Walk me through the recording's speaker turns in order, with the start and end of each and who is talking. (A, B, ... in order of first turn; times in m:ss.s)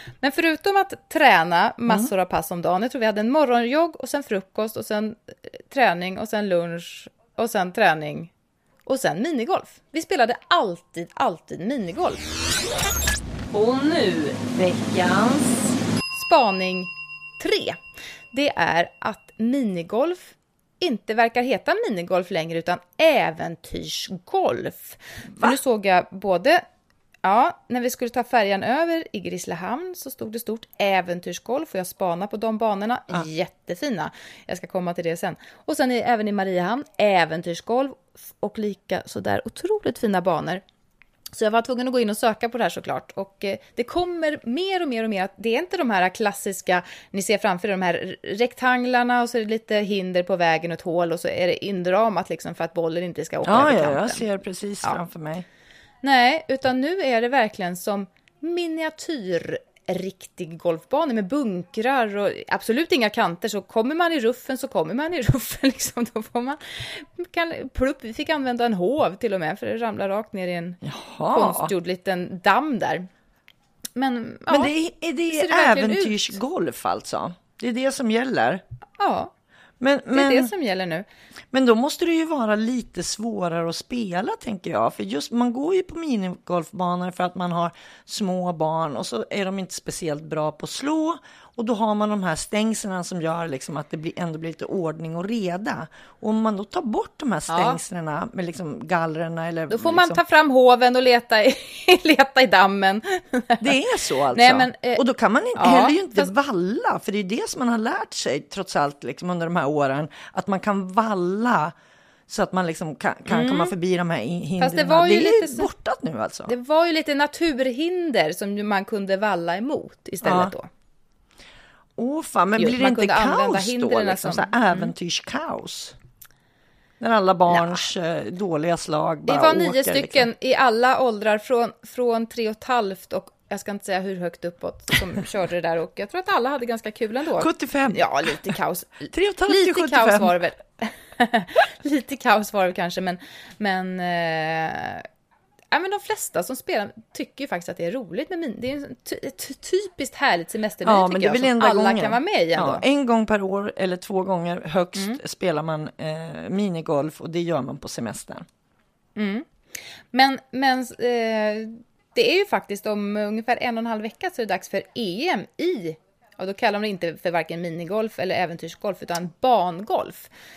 0:00.2-0:08.3 A
0:08.9-0:12.2 A
0:13.5-0:15.8 B
0:16.1-0:17.8 A
0:18.3-0:26.6 A
0:27.2-0:40.6 A
0:41.3-0:54.2 A
0:53.4-0:55.4 C
0:56.0-1:13.1 A
1:10.8-1:11.7 C
1:14.0-1:14.7 A
1:14.5-1:18.6 C
1:15.3-1:16.2 A
1:19.0-1:19.3 A
1:19.8-1:20.5 C
1:20.1-1:21.1 A
1:21.5-1:40.2 C
1:37.5-1:37.8 A
1:39.7-1:45.0 A
1:43.6-1:51.8 C
1:45.6-1:46.3 A
1:52.3-1:56.5 C
1:53.3-1:53.7 A
1:54.6-1:55.7 A
1:56.5-2:00.7 A
2:00.2-2:00.5 C
2:02.0-2:06.0 C
2:02.6-2:04.9 A
2:07.0-2:10.3 C
2:07.5-2:07.8 A
2:09.3-2:25.1 A
2:17.4-2:18.5 C
2:19.1-2:20.3 C
2:25.7-2:32.8 A
2:30.8-2:38.5 C
2:39.2-2:39.5 A
2:40.1-2:50.3 A